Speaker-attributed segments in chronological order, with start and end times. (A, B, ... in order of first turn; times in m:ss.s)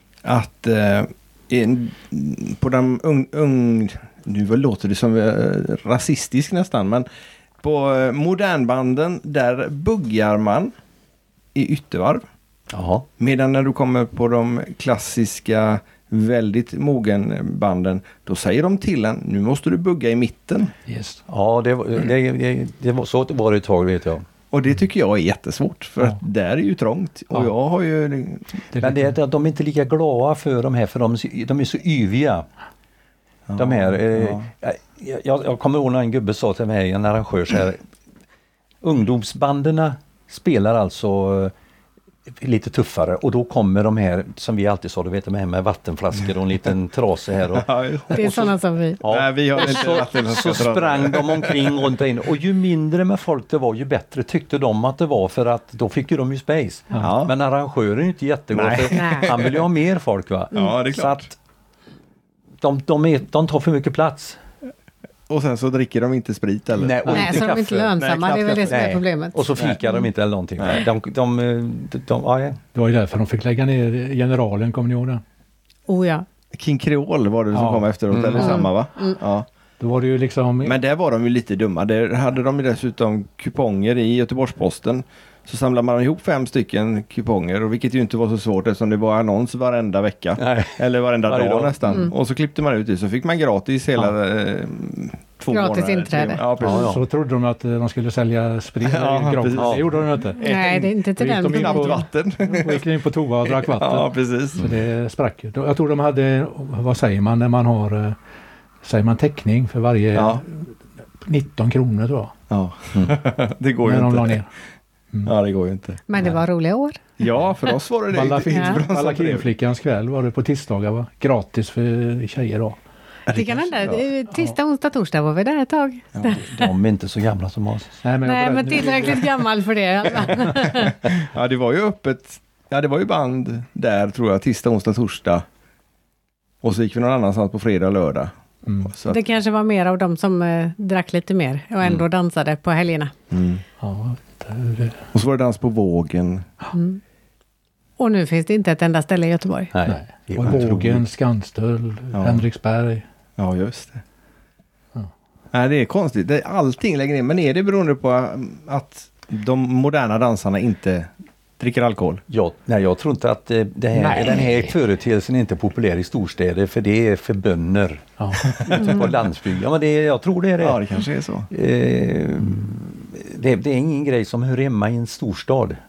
0:00.2-0:07.0 A
0:07.6-0:10.7 A
0:11.5-0:12.2 A
0:12.7-0:13.0 B
0:13.2-0:20.7 A
0:20.8-0:21.2 C
0:21.3-0:24.2 B
0:24.5-0:28.6 A
0:28.7-0:29.1 C
0:28.8-0:32.4 B
0:33.5-0:34.4 A
0:33.6-0:37.8 B
0:38.8-0:41.5 B
0:42.4-0:48.5 B
0:47.5-0:51.9 A
0:48.1-0:49.0 D
0:49.0-1:01.3 B
0:56.9-0:57.3 A
0:58.5-0:59.7 A
0:58.9-0:59.3 D
1:00.5-1:01.3 A
1:02.6-1:04.4 B
1:05.3-1:08.8 A
1:06.8-1:07.9 B
1:07.0-1:09.5 D
1:08.6-1:12.6 B
1:10.6-1:10.8 A
1:12.7-1:15.2 C
1:15.9-1:16.2 D
1:16.5-1:19.5 A
1:17.5-1:18.6 C
1:18.1-1:18.6 B
1:18.4-1:19.2 D
1:19.8-1:20.8 C
1:20.6-1:36.9 A
1:30.4-1:32.0 B
1:35.5-1:36.4 D
1:36.6-1:37.0 B
1:36.6-1:40.4 C
1:38.8-1:40.9 A
1:39.6-1:39.8 B
1:40.4-1:42.0 D
1:41.2-1:48.2 C
1:41.5-1:42.9 A
1:43.4-1:44.7 A
1:48.8-1:52.3 C
1:50.1-1:50.4 A
1:52.5-1:54.4 A
1:53.8-1:54.5 C
1:55.2-1:56.0 A
1:56.1-1:57.0 D
1:57.2-1:59.5 A
1:58.1-2:02.8 C
1:58.5-1:58.8 D
2:03.3-2:06.7 D
2:03.3-2:03.9 C
2:06.3-2:08.0 B
2:08.0-2:09.3 C
2:08.2-2:11.0 D
2:10.5-2:15.4 A
2:16.6-2:18.3 A
2:18.6-2:18.9 C
2:18.8-2:19.2 A
2:19.0-2:23.1 D
2:23.3-2:23.6 A
2:23.8-2:25.0 C
2:25.1-2:26.5 A
2:26.7-2:27.0 D
2:28.0-2:29.7 D
2:29.7-2:31.0 B
2:29.8-2:33.0 C
2:32.1-2:32.4 A
2:33.4-2:34.0 A
2:35.5-2:42.2 A
2:42.3-2:50.8 B
2:43.9-2:44.7 C
2:48.2-2:48.5 C
2:50.6-2:51.5 A
2:51.5-2:55.8 B